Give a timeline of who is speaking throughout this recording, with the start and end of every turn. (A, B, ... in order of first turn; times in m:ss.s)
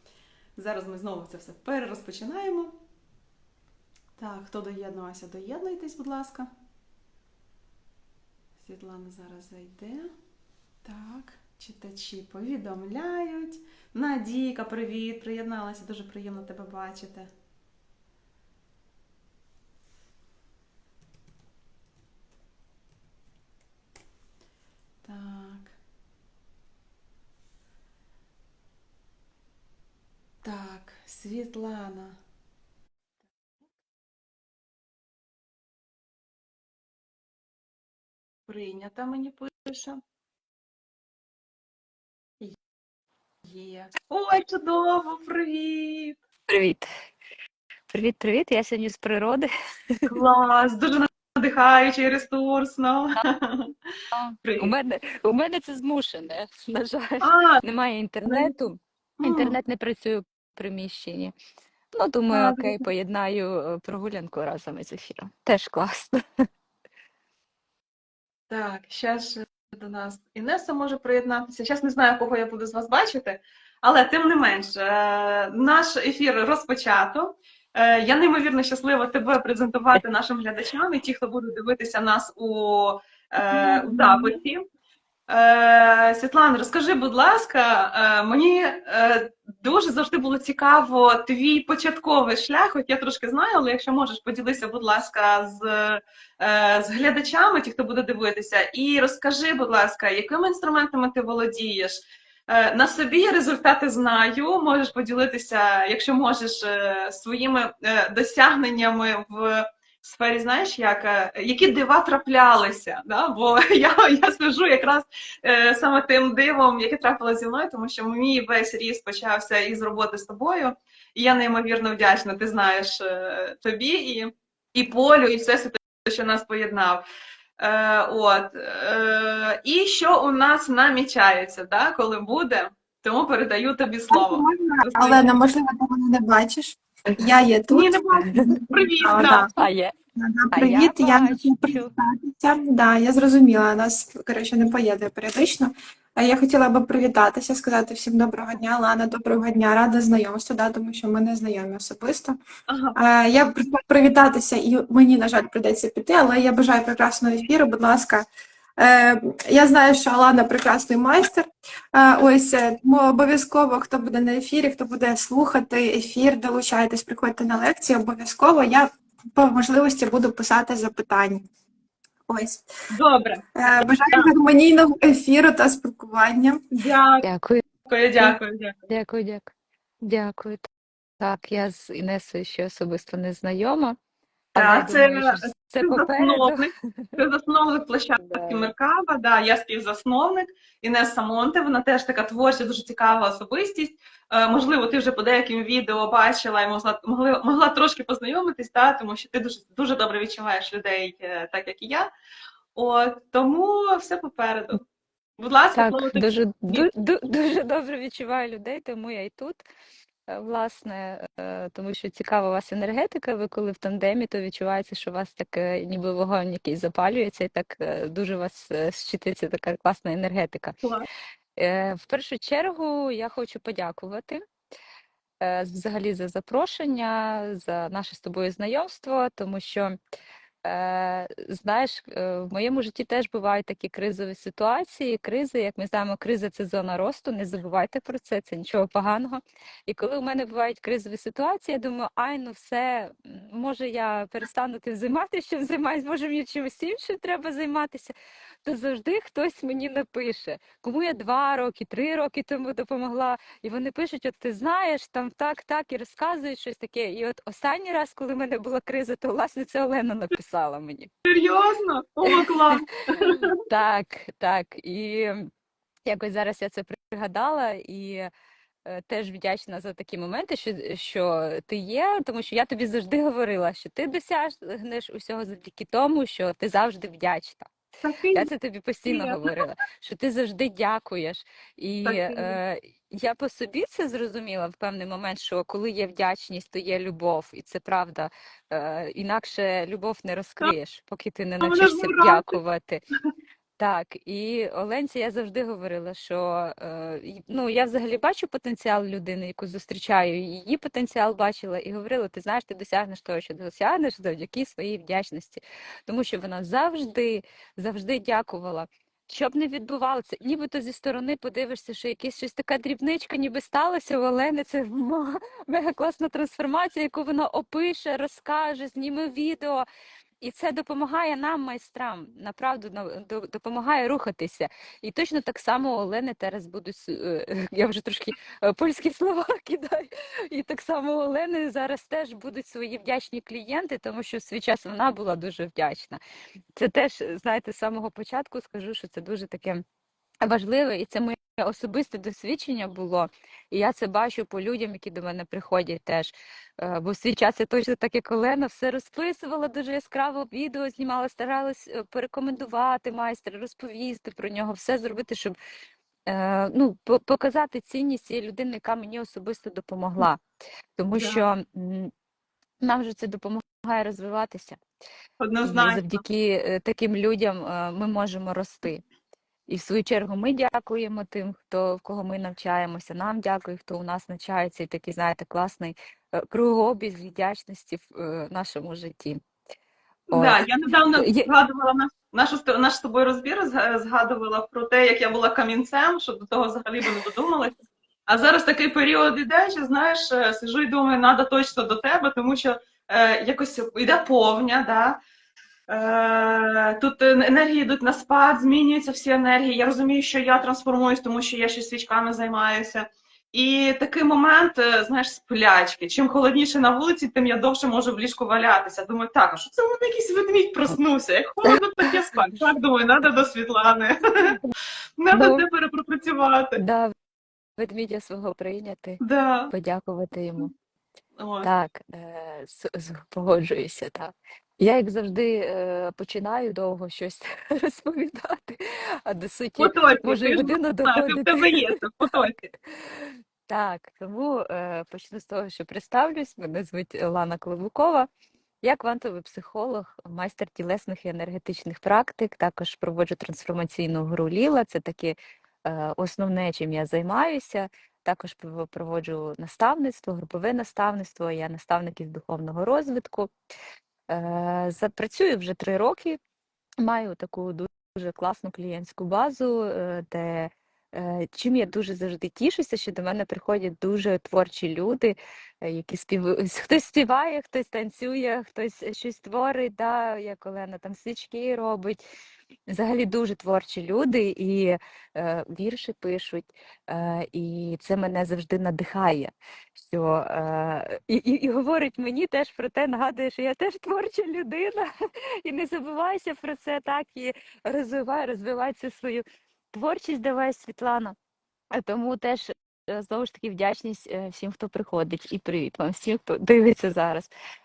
0:00.6-0:02.7 A
0:04.2-0:06.5 A
0:08.6-0:10.1 A
0:10.8-0:17.3 A
0:25.0-0:25.8 A
0:30.4-0:32.2 A
0:38.5-0:40.0 A
0:43.4-0:46.2 A
0:46.5-0:46.8 B
0:47.9-0:50.0 B
0:50.1-0:53.7 A
0:54.1-1:01.3 B
0:54.4-0:54.7 A
0:57.2-0:57.6 A
0:58.2-0:58.5 A
0:59.2-0:59.6 A
1:01.9-1:06.2 B
1:02.3-1:02.9 A
1:08.5-1:24.6 A
1:23.8-1:24.2 C
1:25.3-2:07.0 A
2:07.6-2:15.3 A
2:14.1-2:19.5 C
2:17.7-2:19.5 A
2:18.3-2:19.9 B
2:20.2-2:32.4 C
2:20.5-2:21.9 B
2:32.7-2:33.0 A
2:33.0-2:38.3 C
2:38.8-2:51.4 C
2:52.3-2:52.7 C
2:52.9-2:53.4 A
2:53.6-2:56.6 C
2:56.7-2:57.3 A
2:57.2-2:57.6 B
2:57.8-2:58.8 A
2:58.2-2:59.5 B
3:00.0-3:00.6 B
3:01.2-3:04.0 B
3:04.6-3:07.2 B
3:04.6-3:22.1 A
3:08.2-3:08.7 B
3:22.8-3:24.8 A
3:25.4-3:26.9 A
3:25.7-3:29.6 B
3:30.3-3:40.8 B
3:41.6-3:44.4 B
3:45.4-3:50.0 B
3:50.6-4:08.1 B
4:08.6-4:21.1 B
4:21.3-4:23.5 A
4:22.3-4:25.5 B
4:26.1-4:28.3 B
4:28.9-4:37.7 B
4:38.0-4:38.5 A
4:38.3-4:53.0 B
4:39.1-4:39.6 A
4:42.0-4:42.6 A
4:51.6-4:52.6 A
4:53.8-5:19.9 B
5:20.4-5:36.2 B
5:36.8-5:39.8 B
5:40.4-5:55.6 B
5:56.3-6:00.4 B
6:01.0-6:02.1 B
6:01.2-6:01.4 A
6:02.8-6:04.8 B
6:05.4-6:06.2 A
6:05.6-6:09.0 B
6:09.7-6:19.4 B
6:20.3-6:27.7 A
6:20.3-6:21.5 B
6:28.3-6:35.2 A
6:35.9-6:54.6 A
6:55.2-6:56.8 A
6:55.3-6:55.6 B
6:56.8-6:57.1 B
6:57.8-7:00.7 B
6:59.2-6:59.7 A
7:01.4-7:01.7 A
7:01.6-7:12.0 B
7:09.8-7:12.6 A
7:12.6-7:18.3 B
7:18.8-7:33.5 B
7:34.3-7:36.4 B
7:37.0-7:52.2 B
7:52.9-8:05.1 B
8:05.6-8:11.4 B
8:11.9-8:17.5 B